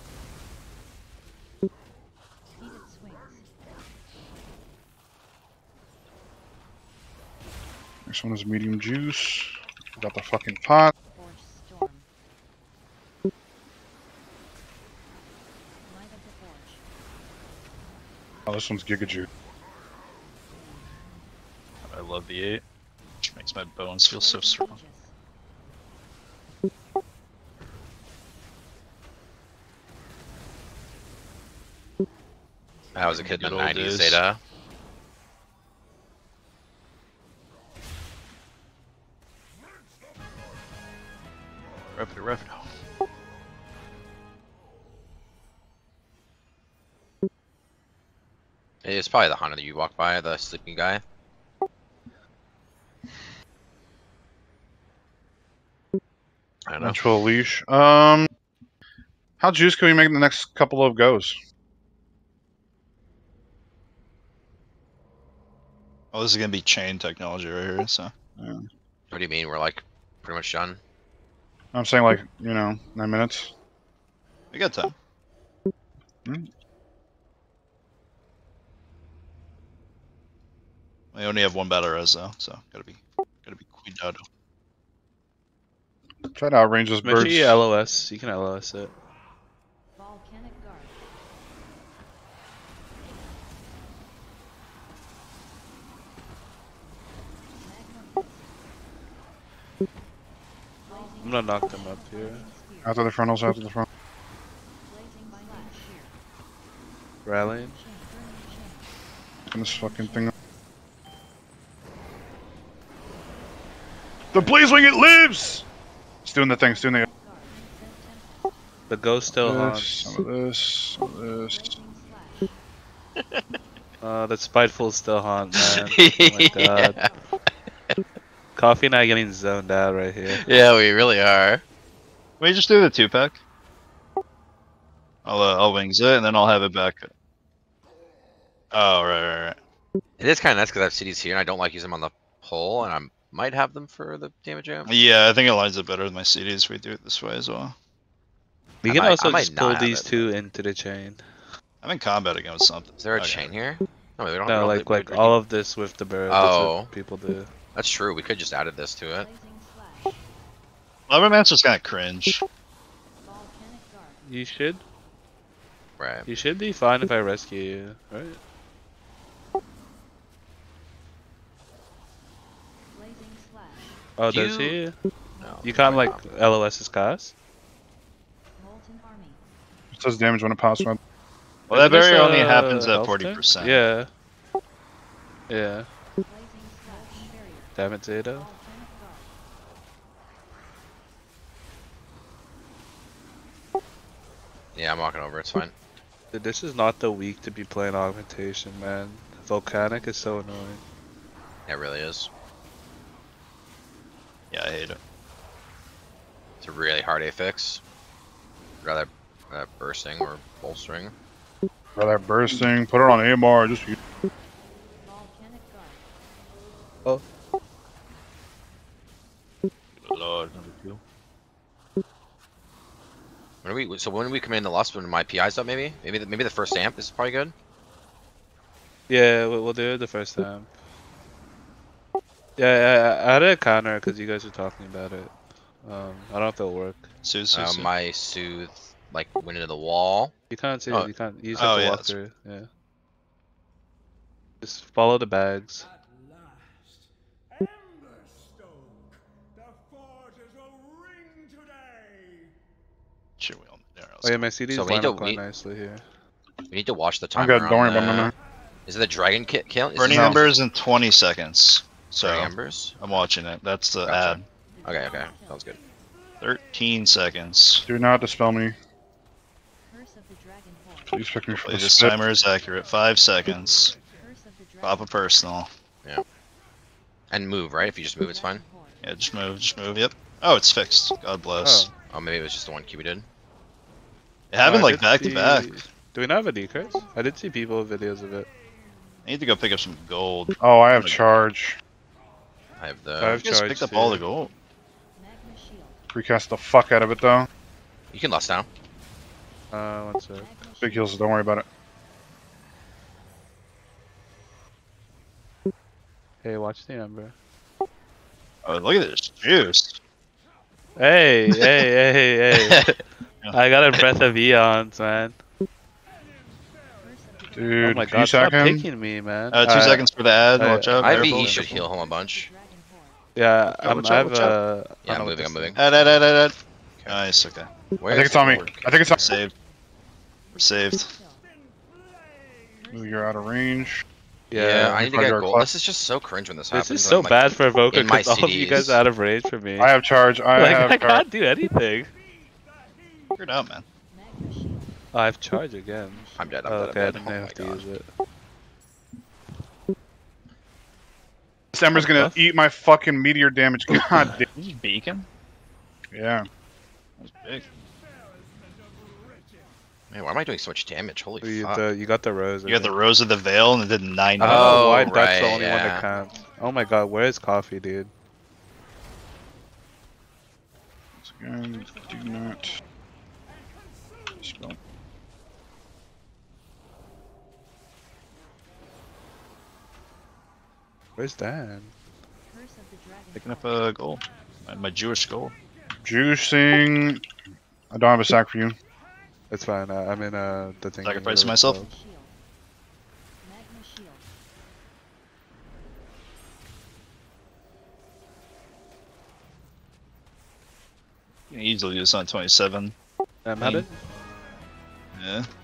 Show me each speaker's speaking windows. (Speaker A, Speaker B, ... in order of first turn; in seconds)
Speaker A: 2.6-3.5, 11.1-12.1, 15.8-16.8, 24.1-25.1, 87.2-88.1, 90.0-91.0, 97.6-98.5, 100.8-102.9, 104.9-106.2, 107.4-109.0, 109.6-110.5, 116.6-118.5, 121.4-122.5, 126.2-127.3, 159.1-160.2, 163.2-164.2, 172.9-174.0, 175.4-175.7, 178.6-179.4, 186.2-187.8, 188.3-189.3, 215.0-216.1, 264.7-265.7, 269.9-271.2, 273.9-275.1, 277.8-279.0, 286.8-287.4, 295.1-296.0, 300.4-301.3, 317.0-318.2, 321.4-323.2, 330.5-331.4, 332.8-333.7, 344.1-345.0, 345.9-346.7, 365.7-366.8, 371.7-372.9, 382.4-383.9, 391.7-392.3, 393.4-394.3
Speaker B: 8.1-10.9, 18.5-19.3, 56.8-58.3, 59.4-61.4, 68.4-68.7, 71.7-73.5, 86.3-87.6, 102.8-103.8, 109.5-110.3, 114.3-115.6, 116.2-117.0, 119.4-121.7, 179.9-181.0, 211.9-213.9, 257.3-258.3, 260.1-260.4, 267.9-268.8, 271.1-272.1, 290.6-291.8, 296.1-297.5, 300.8-301.6, 317.5-318.9, 328.1-329.3, 332.9-334.0, 334.8-335.7, 339.8-341.2, 351.7-354.4, 356.1-356.5, 371.2-372.8, 374.4-374.8, 386.0-387.2, 387.9-388.7
Speaker C: 21.8-22.6, 23.2-24.8, 33.0-34.2, 41.9-42.7, 66.1-68.1, 74.5-74.9, 81.1-84.2, 132.4-133.3, 135.2-137.1, 138.7-139.6, 144.9-147.7, 151.8-153.5, 161.1-162.4, 181.7-183.8, 204.5-205.0, 220.0-221.0, 237.2-237.9, 241.5-242.1, 253.4-254.5, 259.9-264.4, 266.4-267.9, 271.5-274.0, 274.8-275.7, 279.0-281.9, 284.5-285.8, 289.2-291.2, 293.4-294.5, 308.6-309.9, 319.5-321.8, 323.8-324.6, 325.8-327.7, 328.2-329.5, 330.5-331.1, 343.4-343.9, 354.4-355.2, 357.2-357.6, 362.6-365.1, 383.3-385.5, 391.0-391.8, 401.5-402.9, 403.6-403.9, 405.1-405.5
Speaker D: 32.9-34.4, 48.8-51.0, 56.6-57.0, 69.1-70.8, 123.2-123.4, 125.5-127.1, 130.3-131.6, 140.2-144.9, 148.8-150.3, 153.0-155.4, 156.3-156.9, 157.7-159.3, 166.0-166.3, 174.3-174.8, 175.4-176.2, 194.7-195.7, 201.7-202.3, 206.6-207.8, 208.8-211.1, 223.6-227.5, 237.5-240.3, 254.7-255.4, 256.7-258.3, 258.9-260.5, 262.2-263.0, 264.0-265.8, 277.3-278.6, 282.1-283.3, 292.8-293.4, 298.1-298.7, 321.0-322.5, 325.0-326.1, 328.0-329.3, 334.5-339.0, 346.4-347.8, 360.1-361.8, 364.4-366.0
Speaker E: 87.0-88.9, 101.2-102.5, 107.2-107.7, 118.9-120.2, 124.0-127.1, 128.6-130.4, 148.8-151.2, 154.4-157.5, 164.2-164.8, 166.2-168.4, 174.2-174.9, 175.6-177.3, 181.7-184.1, 185.5-185.9, 187.8-188.5, 196.3-200.8, 229.1-230.7, 232.6-237.1, 240.5-242.7, 244.6-245.9, 254.2-256.0, 281.6-281.9, 284.6-288.5, 293.2-294.2, 299.7-300.6, 306.4-307.3, 311.0-315.4, 317.8-321.8, 323.4-325.8, 334.5-335.0, 336.7-339.9, 340.6-342.1, 345.1-348.1, 351.9-352.4, 361.4-362.9, 364.4-368.1, 381.2-381.9, 389.5-391.9, 403.4-404.0